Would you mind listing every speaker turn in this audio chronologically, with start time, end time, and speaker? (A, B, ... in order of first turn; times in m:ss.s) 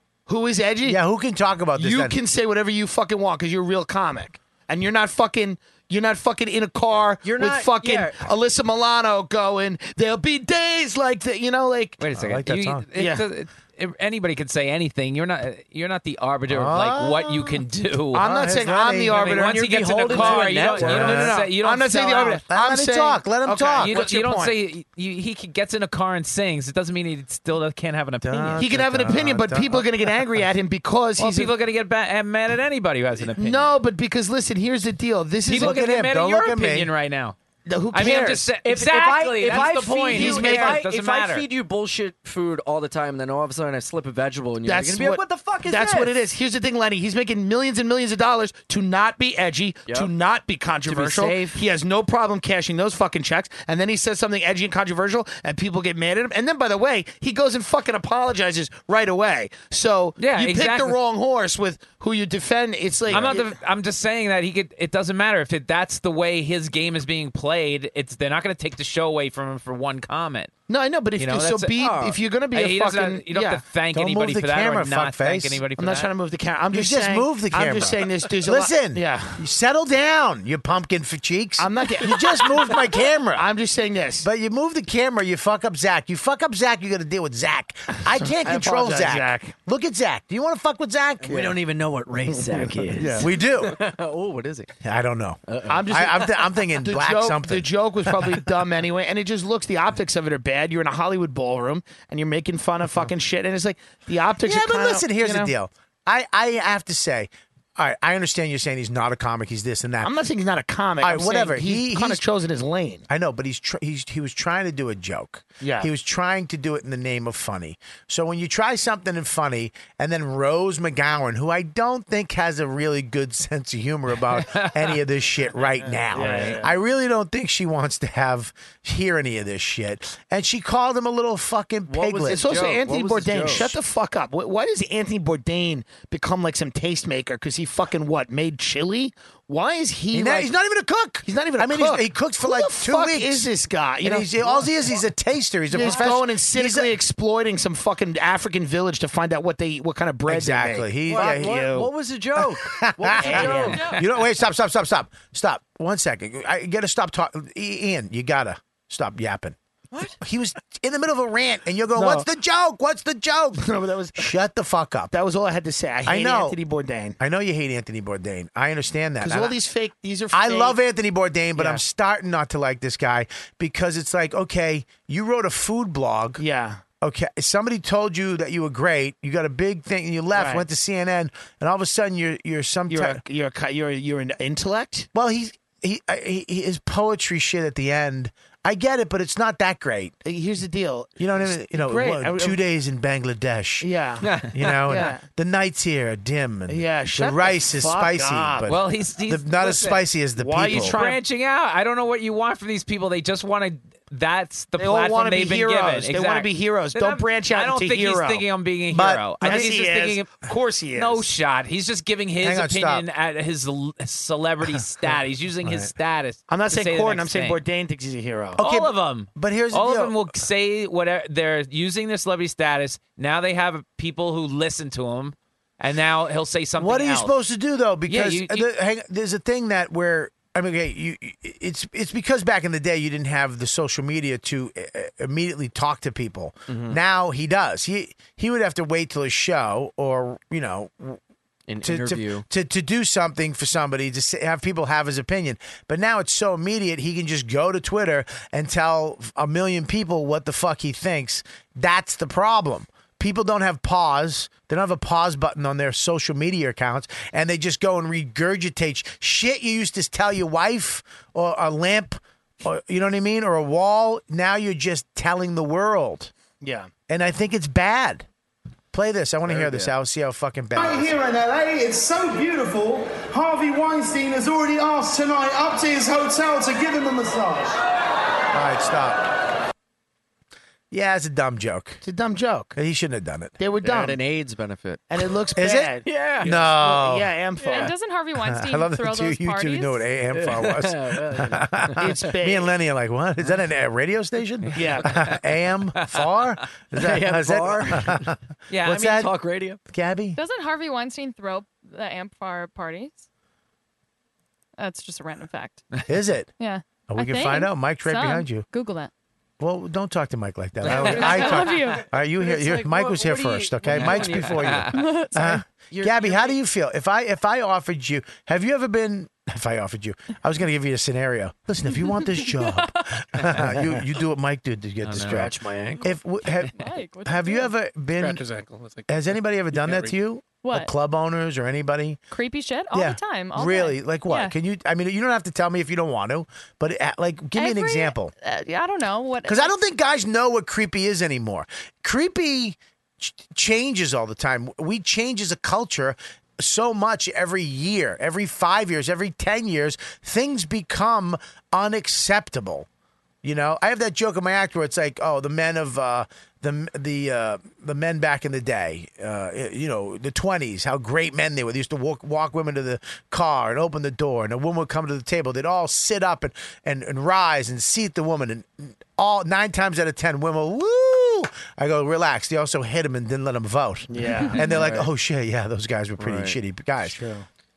0:00.3-0:01.0 A
0:00.8-0:02.2 B
0:01.8-0:12.0 A
0:07.2-0:08.3 C
0:12.0-0:18.3 D
0:12.1-0:12.9 B
0:12.9-0:13.2 A
0:16.5-0:19.3 B
0:18.1-0:24.5 A
0:19.1-0:22.4 D
0:19.2-0:21.4 C
0:20.8-0:21.5 B
0:22.5-0:24.0 B
0:23.8-0:28.6 D
0:28.2-0:30.3 B
0:28.6-0:31.5 A
0:31.2-0:33.7 D
0:33.3-0:35.8 A
0:35.5-0:37.4 D
0:35.5-0:36.9 B
0:37.6-0:38.5 A
0:37.9-0:41.4 D
0:38.6-0:46.3 C
0:40.1-0:40.8 A
0:44.6-1:03.5 A
0:50.8-0:51.6 C
1:00.2-1:01.0 D
1:03.1-1:10.5 D
1:03.1-1:03.4 C
1:10.7-1:13.6 A
1:11.2-1:11.7 D
1:11.8-1:12.2 C
1:12.5-1:16.1 D
1:13.9-1:15.6 B
1:15.8-1:19.4 A
1:16.7-1:23.5 B
1:21.6-1:22.5 A
1:23.3-1:24.2 A
1:24.2-1:31.6 B
1:28.4-1:29.6 A
1:31.2-1:34.7 C
1:32.5-1:33.2 A
1:33.0-1:33.8 B
1:34.8-1:38.5 B
1:35.5-1:36.2 C
1:35.7-1:45.5 A
1:44.4-1:50.2 B
1:50.0-1:53.0 A
1:51.0-1:52.2 B
1:53.1-2:12.4 B
1:55.6-1:55.9 A
2:04.4-2:04.9 D
2:06.1-2:06.6 A
2:11.8-2:13.8 C
2:12.2-2:20.5 A
2:20.1-2:23.5 B
2:21.2-2:24.3 A
2:24.0-2:26.9 B
2:24.4-2:24.9 C
2:25.7-2:31.9 A
2:25.7-2:26.1 C
2:30.3-2:31.6 B
2:31.1-2:33.9 C
2:32.4-2:39.6 B
2:33.2-2:33.9 A
2:33.7-2:34.0 E
2:39.9-2:40.2 C
2:40.2-2:45.1 B
2:41.9-2:42.3 A
2:43.6-2:44.3 A
2:45.1-2:47.2 A
2:46.0-2:46.6 B
2:47.2-2:49.5 B
2:49.2-2:50.8 A
2:50.3-2:56.4 B
2:51.5-2:51.8 A
2:56.4-2:56.8 A
2:57.0-3:03.2 B
3:00.3-3:00.6 A
3:02.9-3:05.1 A
3:05.1-3:10.1 B
3:10.2-3:12.6 A
3:11.2-3:13.9 B
3:13.8-3:14.3 A
3:14.2-3:14.7 D
3:14.5-3:21.0 B
3:14.8-3:15.2 A
3:16.7-3:18.7 A
3:18.6-3:20.0 D
3:20.3-3:21.2 A
3:20.6-3:30.4 D
3:24.8-3:28.4 A
3:28.9-3:29.7 B
3:29.4-3:31.3 A
3:30.9-3:37.6 D
3:32.4-3:33.0 B
3:35.6-3:35.9 B
3:36.5-3:38.6 A
3:38.6-3:40.2 B
3:38.6-3:47.3 D
3:46.8-4:01.2 B
3:48.1-3:48.7 D
3:56.7-3:57.0 C
4:01.7-4:02.4 C
4:01.8-4:26.3 B
4:26.6-4:26.9 A
4:27.1-4:28.3 B
4:28.9-4:31.2 B
4:29.5-4:29.9 C
4:30.7-4:37.8 F
4:38.5-4:39.3 B
4:40.9-4:42.0 B
4:42.0-4:42.8 A
4:42.7-4:43.6 B
4:43.6-4:44.2 A
4:43.8-4:45.2 C
4:45.1-4:46.1 A
4:45.6-4:47.3 B
4:46.0-4:46.7 C
4:46.4-4:46.7 G
4:46.8-4:47.9 A
4:47.6-4:50.0 E
4:47.7-4:47.9 C
4:48.4-4:59.3 B
4:50.3-4:52.1 C
4:52.0-4:52.7 A
4:54.6-4:55.4 D
4:54.7-4:55.2 A
4:57.0-4:58.3 C
4:58.7-4:59.2 D
4:58.9-4:59.8 C
4:59.9-5:00.4 B
5:00.3-5:03.2 E
5:04.8-5:05.8 E
5:06.0-5:06.5 B
5:06.6-5:09.1 E
5:07.1-5:08.6 B
5:09.6-5:28.4 B
5:10.8-5:15.0 C
5:10.9-5:12.0 E
5:13.9-5:14.9 D
5:14.9-5:15.6 E
5:15.9-5:16.6 C
5:22.2-5:22.9 E
5:25.0-5:25.5 D
5:25.1-5:26.1 C
5:26.5-5:27.7 E
5:28.2-5:30.1 G
5:29.1-5:32.2 B
5:30.6-5:30.9 E
5:32.3-5:34.5 E
5:32.9-5:38.3 B
5:37.5-5:39.7 E
5:39.4-5:52.9 B
5:53.4-6:17.2 B
6:14.1-6:14.6 A
6:14.6-6:15.1 C
6:16.2-6:16.6 C
6:17.0-6:17.5 A